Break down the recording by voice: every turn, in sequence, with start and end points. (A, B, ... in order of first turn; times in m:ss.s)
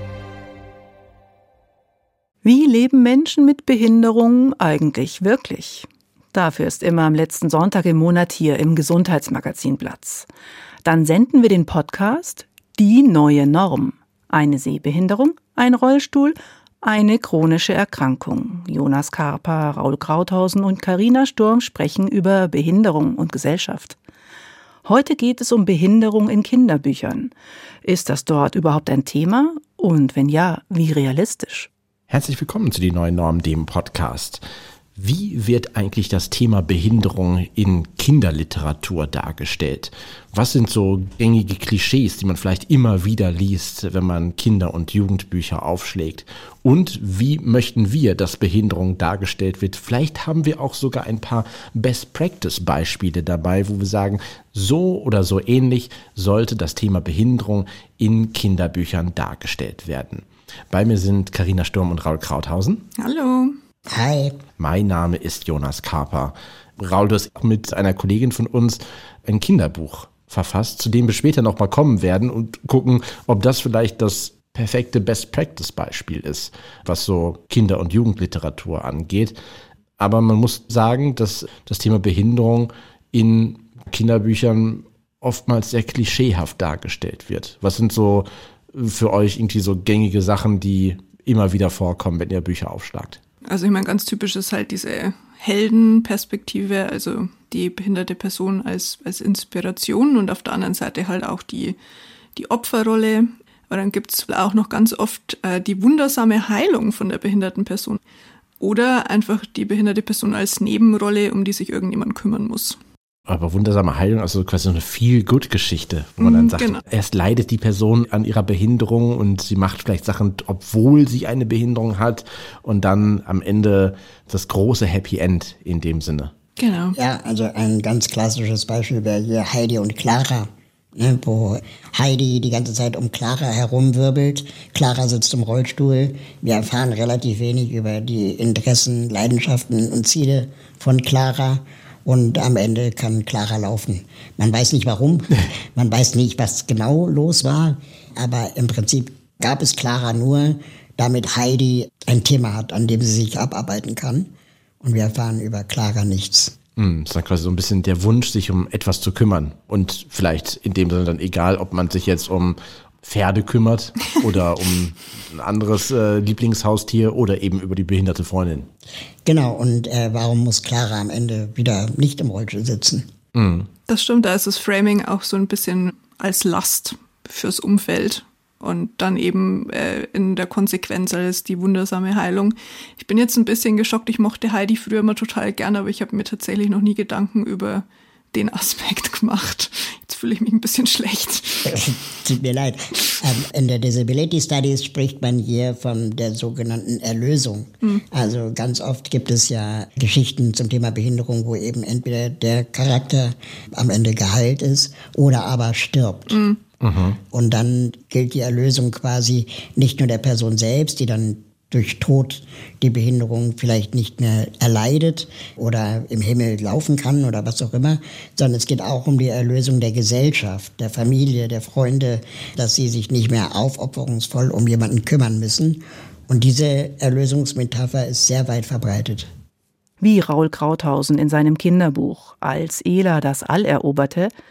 0:02.4-0:10.2 A
0:10.8-0:24.0 A
0:24.8-0:27.3 A
0:27.8-0:31.7 A
0:32.1-0:34.4 B
0:35.0-1:02.8 B
1:03.0-1:03.5 C
1:03.9-1:04.4 D
1:04.6-1:19.4 B
1:20.0-1:33.2 B
1:33.4-1:41.8 C
1:42.4-1:48.0 C
1:48.6-1:52.8 C
1:53.3-2:06.3 B
1:56.2-1:56.8 C
2:06.6-2:07.0 C
2:06.9-2:34.3 D
2:34.8-2:36.5 D
2:36.8-2:48.7 B
2:49.2-2:53.0 D
2:53.3-2:53.7 B
2:53.9-3:11.8 C
3:11.6-3:26.4 D
3:26.3-3:26.6 C
3:26.8-3:27.2 B
3:27.3-3:49.3 D
3:50.0-3:54.3 A